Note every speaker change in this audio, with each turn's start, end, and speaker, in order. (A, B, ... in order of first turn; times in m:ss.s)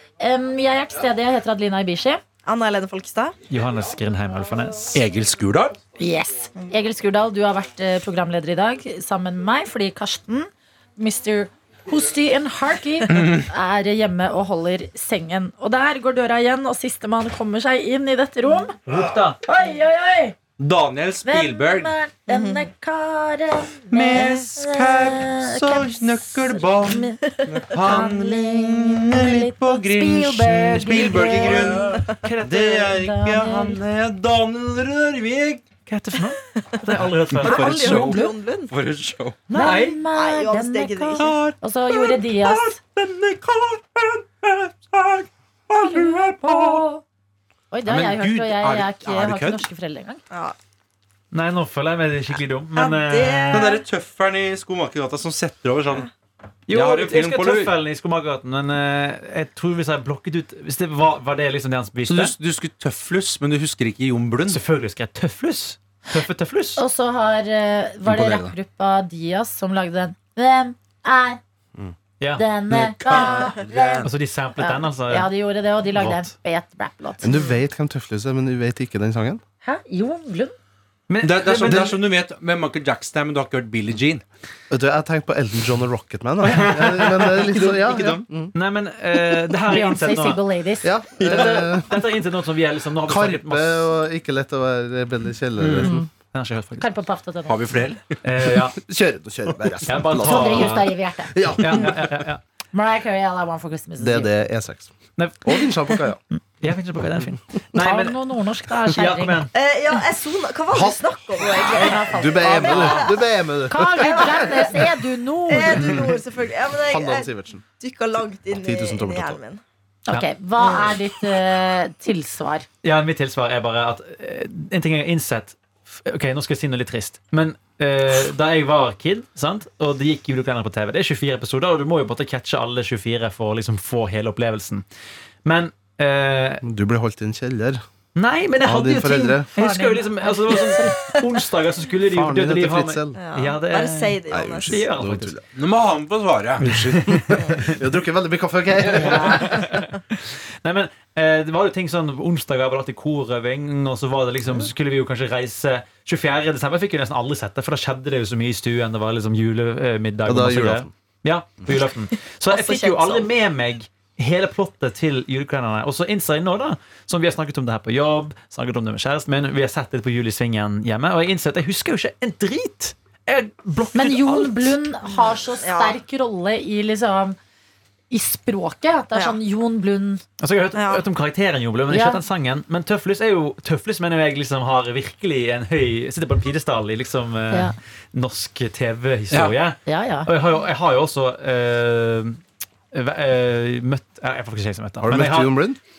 0:00.2-0:02.2 A
0:02.4-0:03.3 B
0:03.5-0:05.0 C
0:04.9-0:05.8 D
0:06.0-0:18.8 A
0:13.1-0:13.4 D
0:18.9-0:19.4 C
0:19.4-0:20.4 A
0:20.6-0:21.9 D
0:21.2-0:32.0 A
0:22.3-0:22.7 B
0:23.9-0:35.6 D
0:30.8-0:32.9 C
0:32.9-0:33.8 A
0:35.9-0:37.8 C
0:37.3-0:39.4 D
0:37.3-0:38.7 B
0:37.8-0:38.3 A
0:39.5-0:40.0 C
0:39.5-0:42.8 A
0:39.6-0:41.4 B
0:41.2-0:46.8 D
0:45.7-0:47.0 A
0:47.7-0:50.2 A
0:47.9-0:49.6 D
0:50.3-0:50.6 B
0:51.3-0:53.7 C
0:52.7-0:53.8 B
0:53.5-0:56.1 D
0:56.7-1:02.3 C
0:56.7-0:57.7 D
1:02.0-1:04.6 D
1:04.5-1:06.8 C
1:06.8-1:11.4 A
1:08.0-1:08.6 E
1:12.4-1:17.3 A
1:12.7-1:13.5 D
1:13.6-1:14.0 E
1:14.0-1:15.3 C
1:15.9-1:16.3 C
1:17.2-1:19.4 E
1:19.6-1:20.5 A
1:21.1-1:22.0 C
1:21.2-1:24.2 D
1:24.7-1:28.5 E
1:26.4-1:30.4 C
1:29.7-1:31.0 A
1:30.8-1:32.0 E
1:31.2-1:33.8 C
1:33.0-1:36.0 E
1:35.6-1:36.0 D
1:35.8-1:36.1 A
1:36.3-1:36.9 C
1:36.8-1:37.7 A
1:37.5-1:38.2 D
1:38.2-1:38.8 C
1:38.8-1:42.1 E
1:39.8-1:40.9 C
1:40.2-1:41.4 A
1:41.6-1:42.4 C
1:42.7-1:44.3 A
1:44.0-1:46.2 E
1:45.2-1:45.4 C
1:46.6-1:48.2 C
1:47.7-1:49.5 A
1:48.9-1:49.5 C
1:49.5-1:53.1 B
1:50.7-1:54.4 E
1:51.4-1:53.1 A
1:52.7-1:53.1 C
1:53.7-1:56.0 A
1:54.0-1:59.6 B
1:55.7-1:56.1 E
1:56.8-1:57.6 E
1:58.5-1:59.4 E
2:00.1-2:02.6 A
2:00.6-2:01.0 B
2:02.8-2:14.8 C
2:15.4-2:16.6 C
2:16.6-2:17.8 E
2:18.1-2:25.3 C
2:18.6-2:19.5 E
2:19.5-2:21.1 A
2:22.1-2:23.2 E
2:23.2-2:24.8 B
2:24.3-2:25.4 E
2:25.5-2:27.1 D
2:26.7-2:27.4 C
2:27.4-2:29.8 E
2:27.4-2:27.7 B
2:29.0-2:54.8 C
2:40.2-2:40.9 E
2:42.3-2:43.3 B
2:53.9-2:57.4 A
2:55.6-2:56.0 B
2:58.1-3:00.2 A
2:59.1-2:59.4 B
3:00.4-3:12.4 C
3:00.7-3:01.0 B
3:01.9-3:02.2 A
3:09.3-3:09.6 D
3:09.9-3:10.3 A
3:12.9-3:15.5 C
3:15.0-3:15.8 E